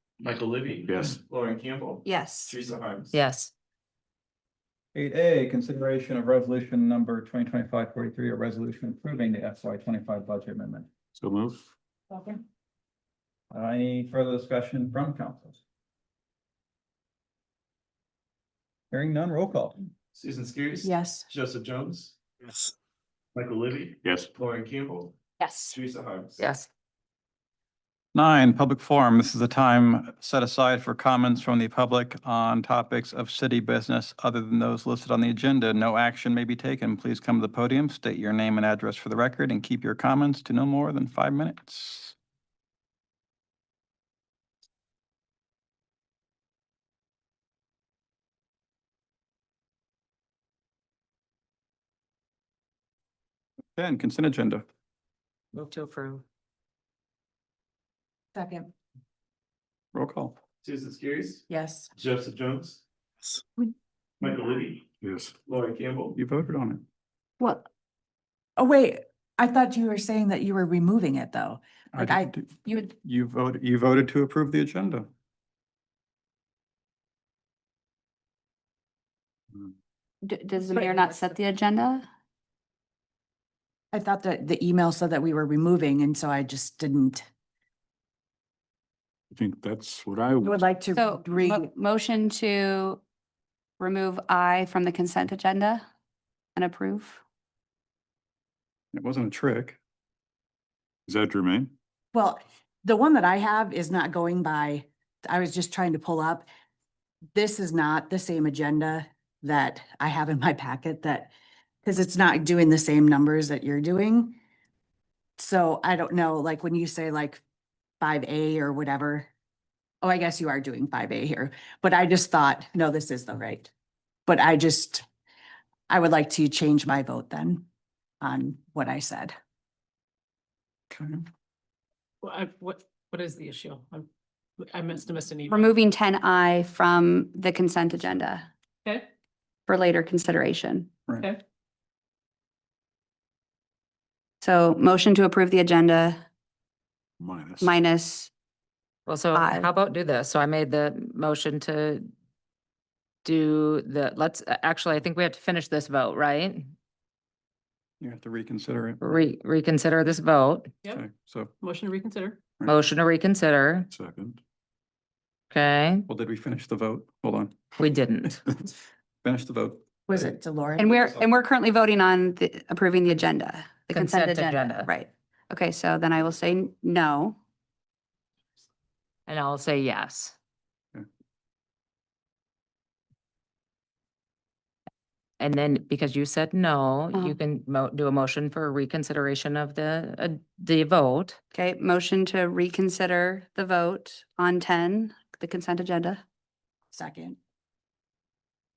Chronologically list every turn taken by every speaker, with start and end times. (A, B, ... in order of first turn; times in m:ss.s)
0:00.2-0:03.2 A
0:00.9-0:01.2 B
0:02.0-0:02.5 C
0:03.1-0:03.5 D
0:04.9-0:10.9 E
0:11.2-0:11.7 B
0:12.1-0:12.4 F
0:13.5-0:15.6 E
0:18.9-0:19.9 E
0:20.1-0:22.1 A
0:20.8-0:21.3 F
0:23.4-0:25.2 A
0:24.0-0:24.3 B
0:25.4-0:25.7 F
0:25.7-0:26.4 A
0:26.4-0:26.7 D
0:28.1-0:42.1 E
0:53.8-0:54.6 E
0:55.5-0:56.2 D
0:58.3-0:58.7 F
0:59.9-1:00.4 E
1:00.6-1:02.8 A
1:01.5-1:01.9 F
1:04.2-1:04.8 A
1:05.0-1:05.3 B
1:05.5-1:06.2 A
1:06.2-1:06.8 E
1:07.4-1:07.6 C
1:08.6-1:12.3 F
1:11.9-1:15.1 E
1:20.2-1:22.0 C
1:20.8-1:21.0 G
1:23.9-1:27.2 F
1:29.3-1:30.6 B
1:30.4-1:31.7 F
1:30.9-1:33.0 C
1:33.8-1:35.8 C
1:36.6-1:37.2 C
1:38.9-1:39.8 E
1:41.1-1:41.7 B
1:42.1-1:46.5 F
1:47.3-1:51.3 F
1:51.8-1:54.4 F
1:55.4-1:57.4 F
1:58.0-1:59.3 F
2:00.0-2:03.7 F
2:04.3-2:05.0 F
2:05.9-2:07.6 F
2:08.2-2:09.3 F
2:10.9-2:11.2 E
2:12.2-2:14.1 G
2:14.6-2:15.7 G
2:15.5-2:18.5 C
2:19.7-2:20.9 C
2:24.4-2:26.2 C
2:27.2-2:27.8 B
2:27.6-2:28.3 C
2:29.1-2:32.1 D
2:29.3-2:29.7 C
2:33.2-2:36.7 D
2:38.0-2:39.0 E
2:39.0-2:40.7 D
2:40.9-2:41.5 E
2:41.6-2:42.4 G
2:42.7-2:43.9 D
2:43.9-2:44.4 B
2:45.5-2:46.1 D
2:46.1-2:47.7 E
2:47.8-2:48.4 D
2:49.2-2:50.3 E
2:50.1-2:51.0 F
2:50.8-2:57.4 C
2:53.9-2:54.9 D
2:59.3-3:00.3 D
3:05.4-3:11.4 D
3:11.5-3:16.2 C
3:16.9-3:17.4 F